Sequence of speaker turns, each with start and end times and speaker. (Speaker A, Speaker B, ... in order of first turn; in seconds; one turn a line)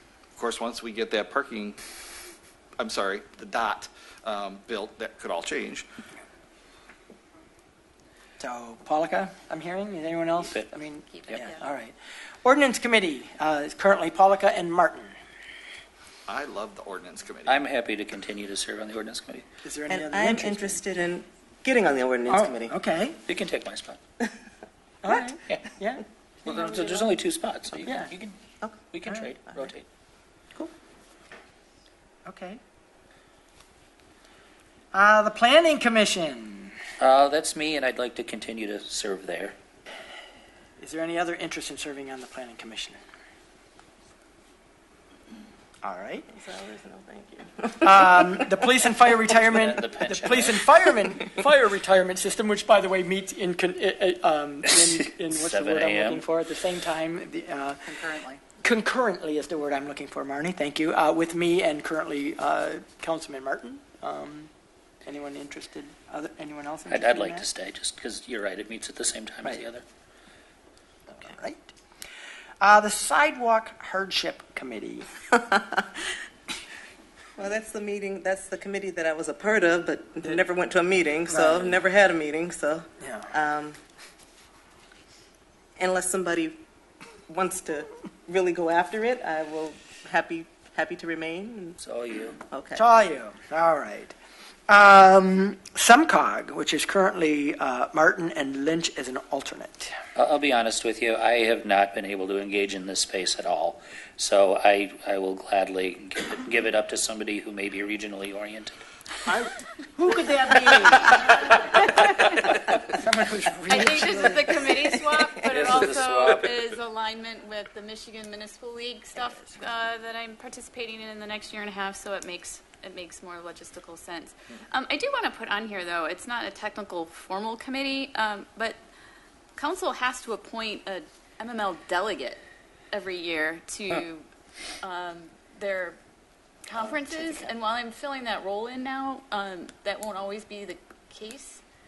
Speaker A: 0.3-1.8
Speaker A: 2.8-5.8
Speaker B: 8.4-15.2
Speaker C: 11.1-11.6
Speaker A: 16.3-17.6
Speaker D: 17.4-19.5
Speaker B: 19.6-20.8
Speaker E: 19.9-22.7
Speaker B: 22.3-23.2
Speaker D: 23.2-24.0
Speaker B: 25.0-26.9
Speaker D: 26.4-28.4
Speaker B: 27.8-28.1
Speaker D: 28.9-29.9
Speaker B: 29.1-29.3
Speaker B: 32.2-32.6
Speaker B: 34.9-36.8
Speaker D: 37.0-39.5
Speaker B: 40.8-43.0
Speaker B: 45.8-46.3
Speaker E: 46.3-48.4
Speaker B: 47.8-58.0
Speaker D: 49.4-50.6
Speaker D: 55.3-56.2
Speaker E: 58.0-58.4
Speaker B: 58.6-64.5
Speaker B: 65.0-67.5
Speaker D: 66.9-69.8
Speaker B: 71.1-71.7
Speaker B: 72.6-75.1
Speaker E: 75.4-76.0
Speaker E: 77.4-83.8
Speaker B: 81.3-81.8
Speaker B: 83.0-83.3
Speaker E: 85.8-86.6
Speaker E: 87.3-91.8
Speaker D: 91.8-92.4
Speaker E: 92.5-92.8
Speaker B: 92.7-94.1
Speaker B: 94.7-100.0
Speaker D: 100.2-108.8
Speaker B: 109.2-111.9
Speaker B: 112.8-114.9
Speaker C: 113.7-128.8
Speaker D: 115.4-116.5
Speaker B: 119.1-119.7
Speaker C: 129.6-134.2
Speaker C: 134.8-136.0
Speaker C: 136.7-141.6